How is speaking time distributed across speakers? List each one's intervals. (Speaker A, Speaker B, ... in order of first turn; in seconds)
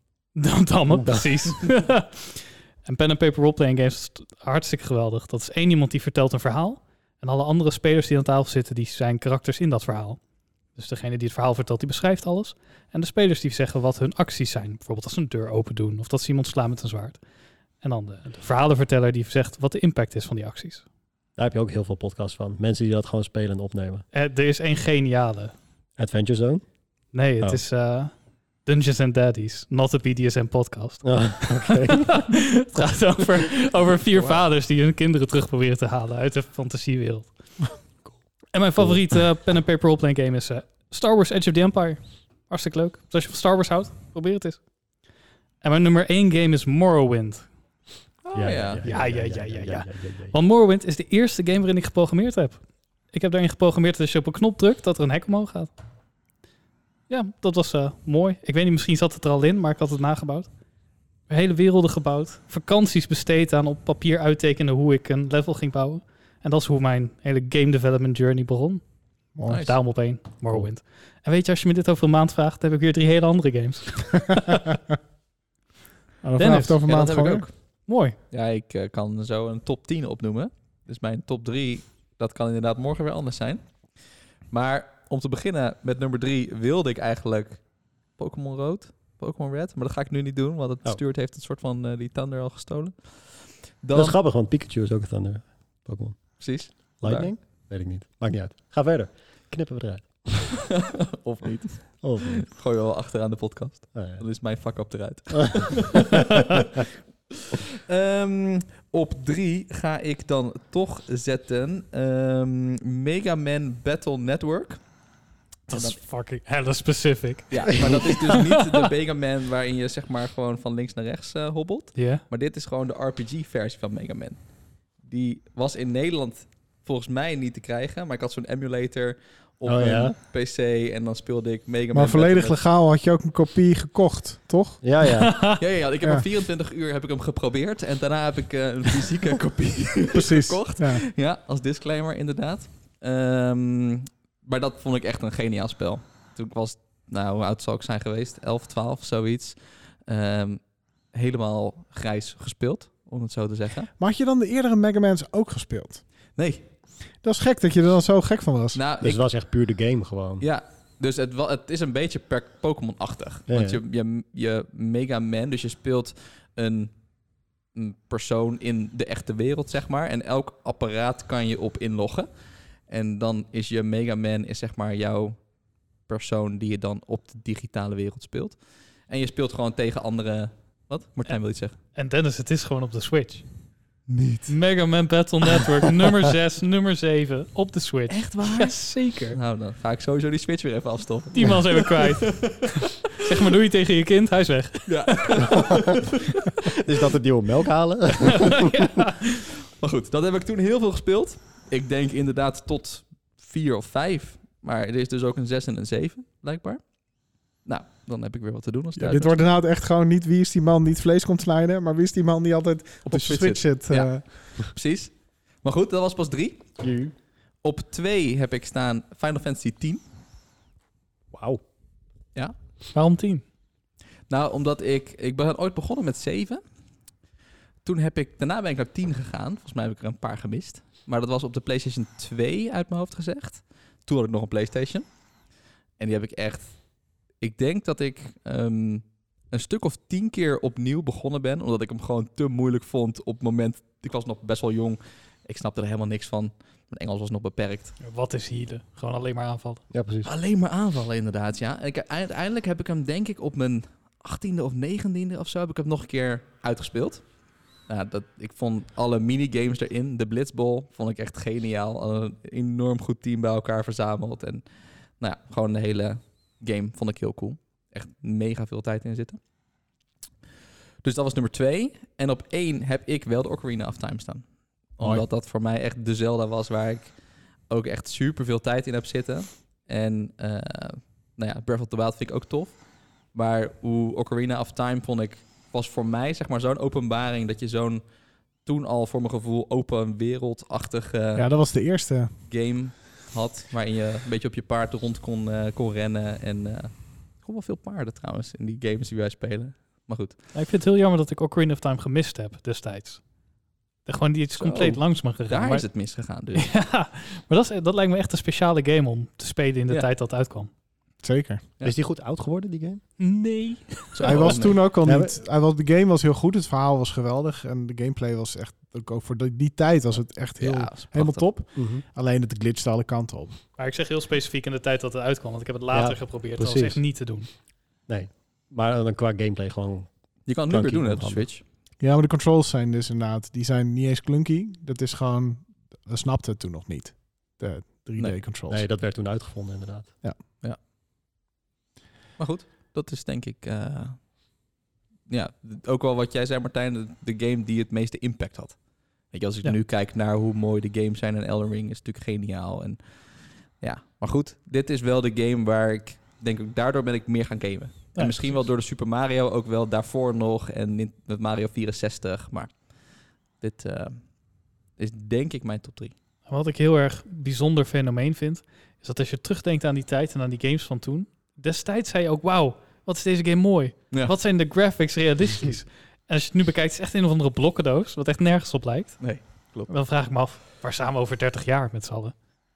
Speaker A: 0.3-10.2, 10.7-17.2, 17.8-20.8, 24.1-25.5, 27.1-28.1, 28.6-37.3, 38.5-44.6, 45.6-47.5, 48.8-52.6, 53.1-55.7, 57.1-60.5, 61.3-68.8, 69.5-74.6, 76.4-76.8, 77.9-78.2, 115.7-118.7, 121.9-122.2, 135.2-135.6, 181.9-183.4, 184.5-189.4, 191.3-195.5, 198.3-199.5, 222.9-223.4, 248.0-249.8, 300.5-303.2, 304.1-305.9, 306.5-310.7, 313.2-314.4, 323.8-327.5, 358.1-358.6, 366.5-379.3, 379.9-382.3
Speaker B: 0.9-1.4, 21.4-24.0, 26.0-26.6, 31.0-32.3, 48.3-50.3, 93.9-100.5, 102.0-102.5, 103.9-104.2, 129.6-130.1, 134.8-135.5, 159.0-160.4, 163.5-163.8, 196.7-198.7, 216.8-217.1, 221.3-221.6, 249.9-250.3, 311.8-313.0, 315.0-315.4, 321.7-322.0, 325.9-327.0, 328.1-330.1, 330.7-331.5, 338.7-340.1
Speaker C: 48.2-48.8, 69.5-69.8, 76.8-77.5, 78.3-83.6, 84.5-87.6, 88.2-94.2, 96.4-97.3, 100.6-106.8, 107.8-114.8, 115.7-116.0, 117.5-124.4, 125.0-132.6, 135.6-150.6, 151.1-153.9, 156.3-156.7, 158.7-159.2, 160.4-166.9, 167.7-172.3, 172.9-175.4, 176.1-181.8, 184.1-184.5, 188.1-192.9, 194.9-196.1, 199.8-206.8, 207.6-209.4, 213.1-215.1, 215.6-216.8, 217.6-220.0, 224.3-226.6, 227.8-235.1, 236.0-236.8, 237.4-248.0, 250.2-257.2, 257.9-264.6, 265.2-269.4, 271.0-274.4, 274.9-277.1, 277.7-282.8, 283.3-288.0, 288.6-291.5, 292.5-300.3, 304.6-306.7, 314.1-314.9, 320.6-321.4, 330.5-331.6, 342.4-344.3, 345.3-364.4, 365.0-366.1, 379.2-379.9
Speaker D: 69.3-69.6, 76.2-77.5, 131.9-134.8, 140.1-141.0, 154.0-156.0, 157.2-158.8, 209.0-214.3, 291.4-292.3, 311.2-311.6, 314.2-323.6, 332.0-338.8